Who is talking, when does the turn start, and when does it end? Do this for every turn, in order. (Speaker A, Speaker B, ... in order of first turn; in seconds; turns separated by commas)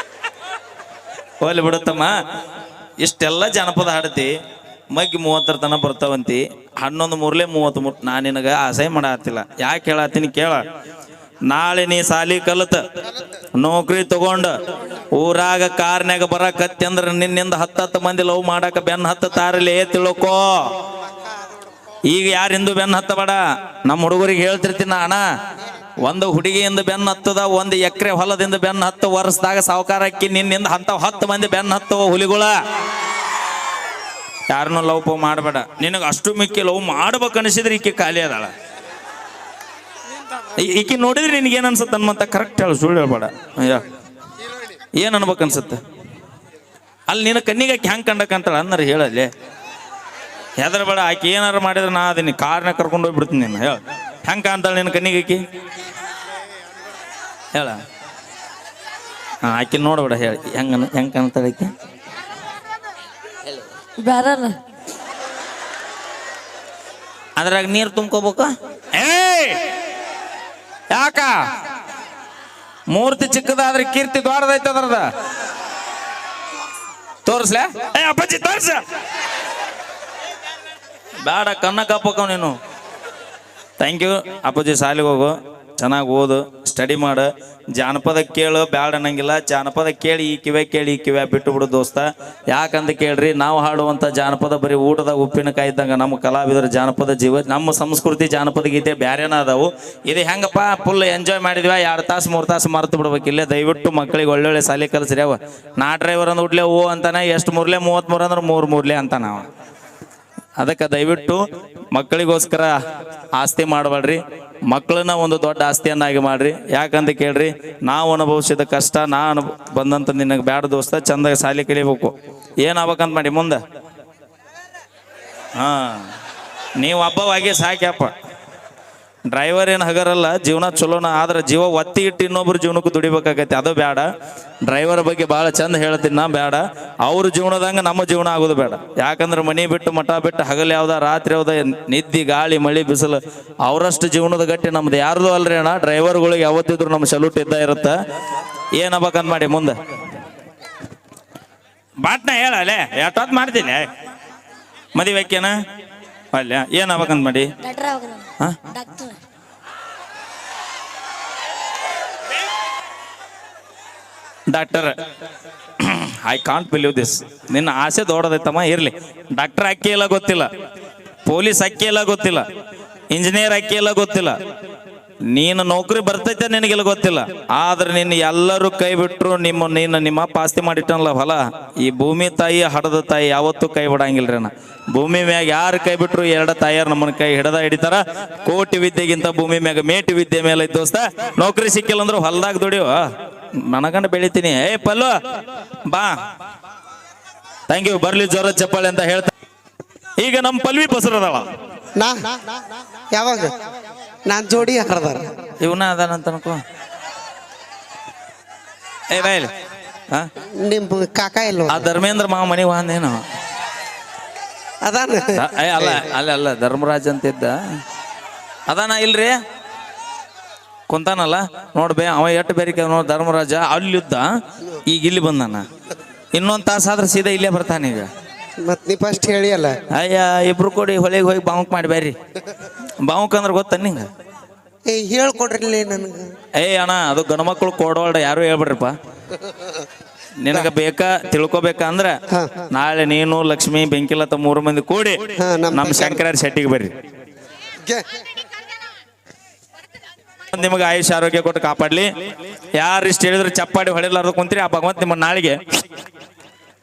Speaker A: 1.4-2.1, Speaker A: 3.0-4.3, Speaker A: 4.9-10.6, Speaker A: 11.5-12.8, Speaker A: 13.6-14.6, Speaker A: 15.1-20.7, Speaker A: 22.1-25.2, Speaker A: 26.0-32.6, Speaker A: 34.5-38.5, Speaker A: 40.6-43.9, Speaker A: 45.0-45.8, Speaker A: 47.1-49.3, Speaker A: 50.6-55.4, Speaker A: 57.5-57.8, Speaker A: 59.4-61.7, Speaker B: 64.0-64.6, Speaker A: 67.4-69.6, Speaker A: 70.9-71.4, Speaker A: 72.9-75.1, Speaker A: 77.3-78.8, Speaker A: 81.2-82.5, Speaker A: 83.8-109.5, Speaker A: 110.6-112.8, Speaker A: 113.4-123.6, Speaker A: 125.6-126.1, Speaker A: 126.8-128.1, Speaker A: 129.3-134.1, Speaker A: 134.7-148.0, Speaker A: 148.8-149.8, Speaker A: 152.0-153.9, Speaker A: 154.9-155.6, Speaker A: 156.3-157.5, Speaker B: 157.6-159.2, Speaker A: 164.5-164.9, Speaker A: 165.8-170.5, Speaker A: 171.3-172.4, Speaker A: 173.1-174.3, Speaker A: 175.3-193.1, Speaker A: 193.6-195.1, Speaker A: 195.9-196.2, Speaker A: 197.7-199.3, Speaker A: 200.2-201.5, Speaker C: 202.0-202.6, Speaker C: 203.1-203.5, Speaker C: 204.3-205.3, Speaker A: 205.6-206.6, Speaker A: 209.1-209.5, Speaker C: 210.5-211.9, Speaker A: 211.7-213.2, Speaker C: 214.8-216.1, Speaker A: 215.3-217.6, Speaker A: 218.7-219.4, Speaker A: 220.9-224.3, Speaker A: 224.9-225.7, Speaker A: 226.3-228.1, Speaker C: 228.6-229.8, Speaker A: 229.9-232.2, Speaker A: 233.0-234.1, Speaker C: 234.9-236.3, Speaker A: 236.6-238.9, Speaker C: 239.3-239.7, Speaker A: 240.4-242.2, Speaker C: 242.3-242.7, Speaker A: 242.7-245.2, Speaker C: 245.4-246.2, Speaker A: 245.7-246.9, Speaker A: 250.5-252.1, Speaker A: 252.8-255.6